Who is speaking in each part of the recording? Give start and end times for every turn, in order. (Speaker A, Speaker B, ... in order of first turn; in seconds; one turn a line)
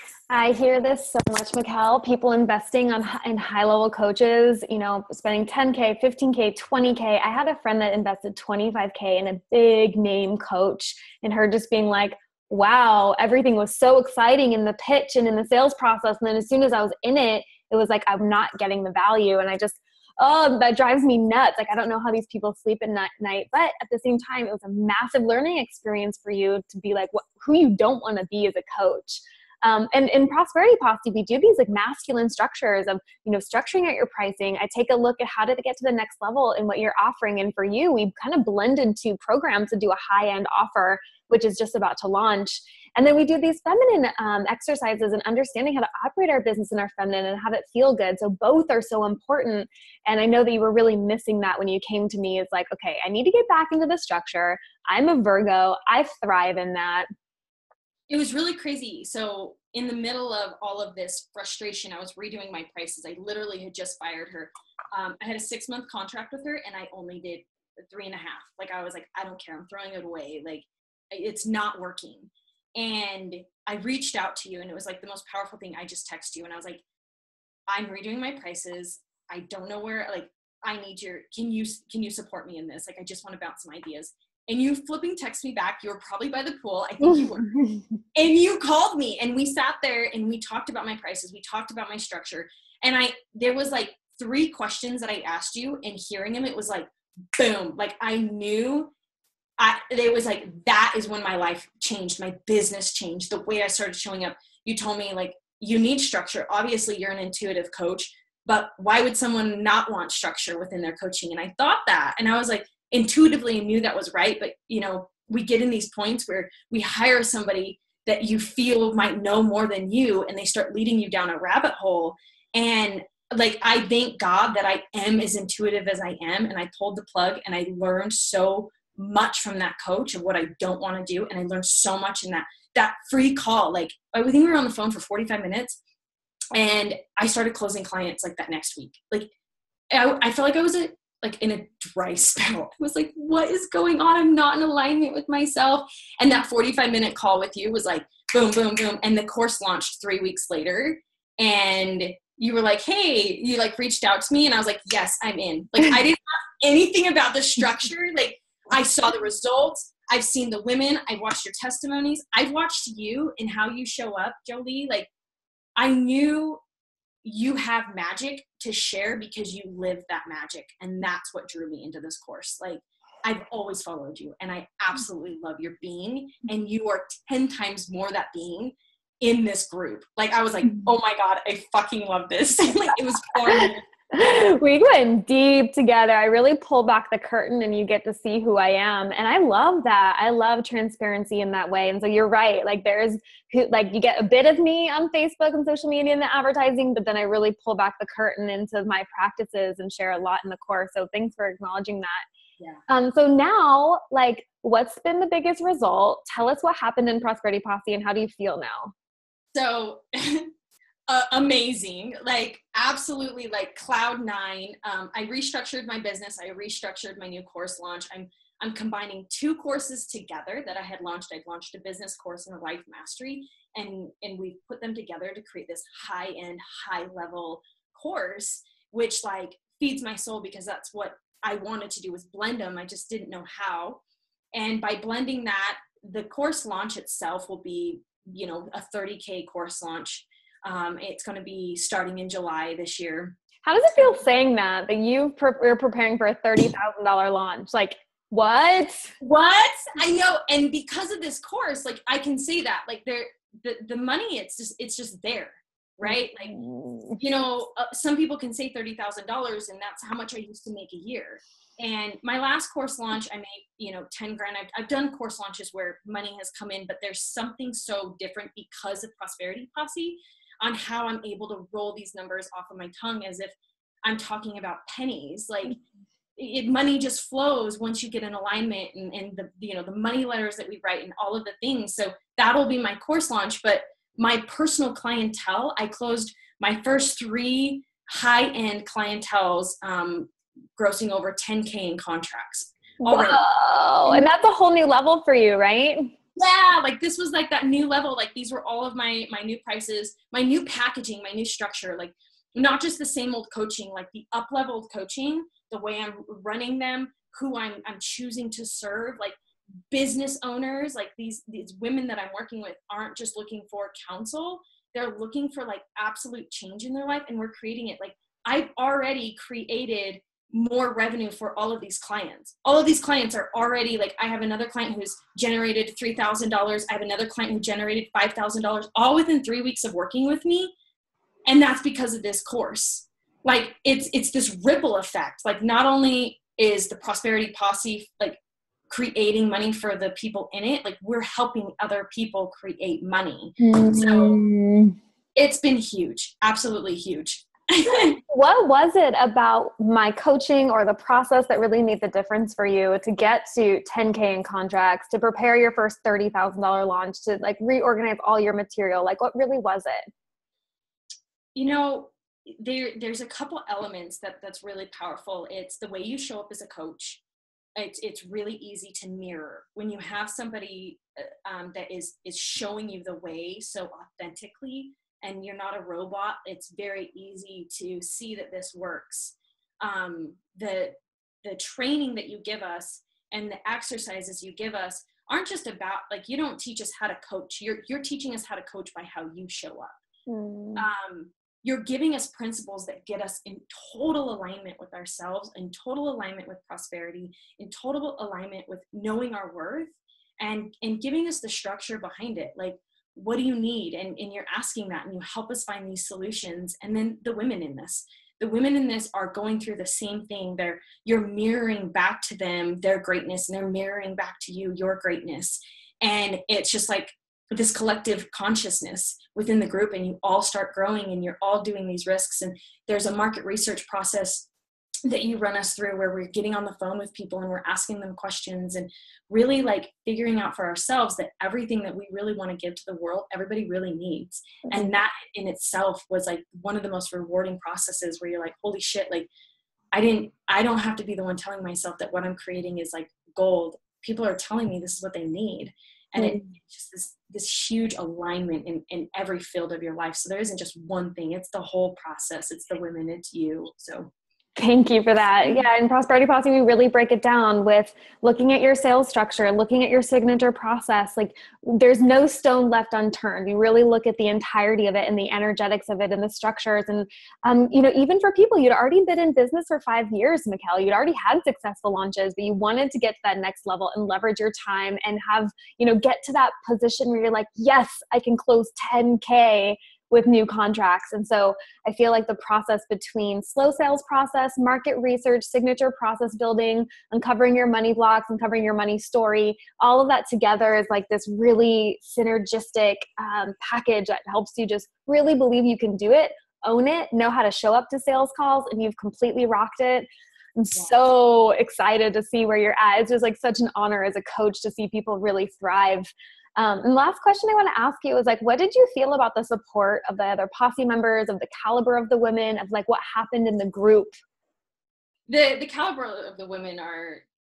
Speaker A: 0.3-57.1
Speaker B: 58.1-76.8
Speaker B: 77.7-87.5
Speaker A: 87.0-87.8
Speaker B: 88.1-98.9
Speaker B: 99.6-135.8
Speaker B: 136.5-139.3
Speaker B: 139.9-165.1
Speaker B: 165.8-166.6
Speaker B: 167.2-183.8
Speaker A: 183.5-202.2
Speaker A: 202.9-208.9
Speaker B: 209.5-210.5
Speaker B: 211.1-234.0
Speaker B: 234.5-244.2
Speaker A: 243.6-249.1
Speaker B: 249.2-256.5
Speaker A: 256.0-257.2
Speaker B: 257.2-275.8
Speaker B: 276.4-293.4
Speaker A: 293.0-296.1
Speaker B: 296.4-309.3
Speaker B: 309.9-330.7
Speaker B: 331.5-338.4
Speaker B: 338.9-344.3
Speaker A: 343.6-344.9
Speaker B: 345.4-348.2
Speaker A: 348.3-360.1
Speaker B: 361.5-367.2
Speaker B: 367.8-390.0
Speaker A: 390.3-390.9
Speaker B: 390.8-424.5
Speaker B: 425.0-439.3
Speaker A: 434.6-434.9
Speaker B: 439.9-454.1
Speaker A: 446.2-446.5
Speaker A: 454.6-514.2
Speaker B: 515.3-517.2